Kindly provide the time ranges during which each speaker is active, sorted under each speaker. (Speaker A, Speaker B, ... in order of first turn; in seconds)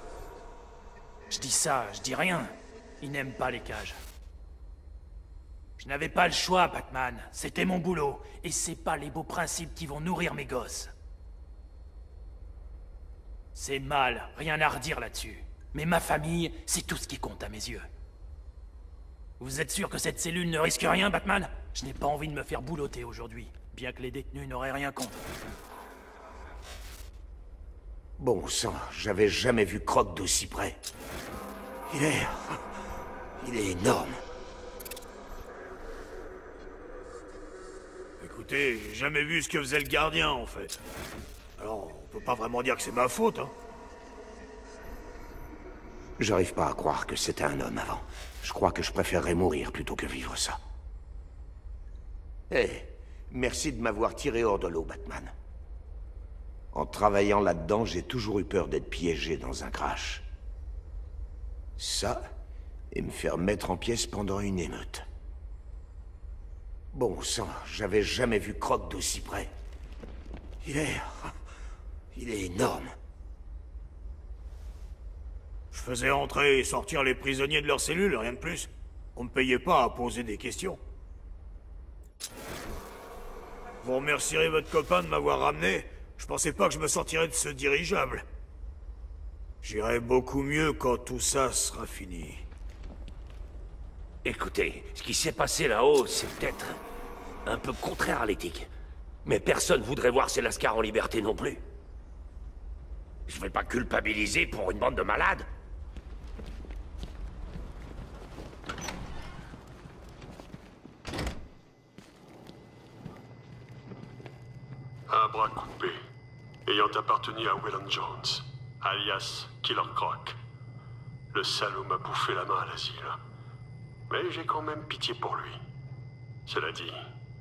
Speaker A: 1.3-4.0, 5.8-10.9, 13.5-17.9, 19.4-25.2
Speaker B: 28.2-30.8, 31.9-32.6, 33.4-34.1, 46.2-50.6, 52.5-55.3, 56.7-60.2, 61.8-62.2, 62.9-65.0, 66.9-69.5, 70.6-71.3, 72.1-72.9
Speaker C: 38.2-40.8, 41.6-43.5, 75.7-80.8, 83.8-88.2, 89.6-92.4
Speaker D: 94.2-96.8, 97.5-98.7, 99.2-101.6, 103.3-105.5
Speaker E: 115.1-116.0, 116.7-120.4, 121.3-123.2, 124.1-125.6, 126.5-127.0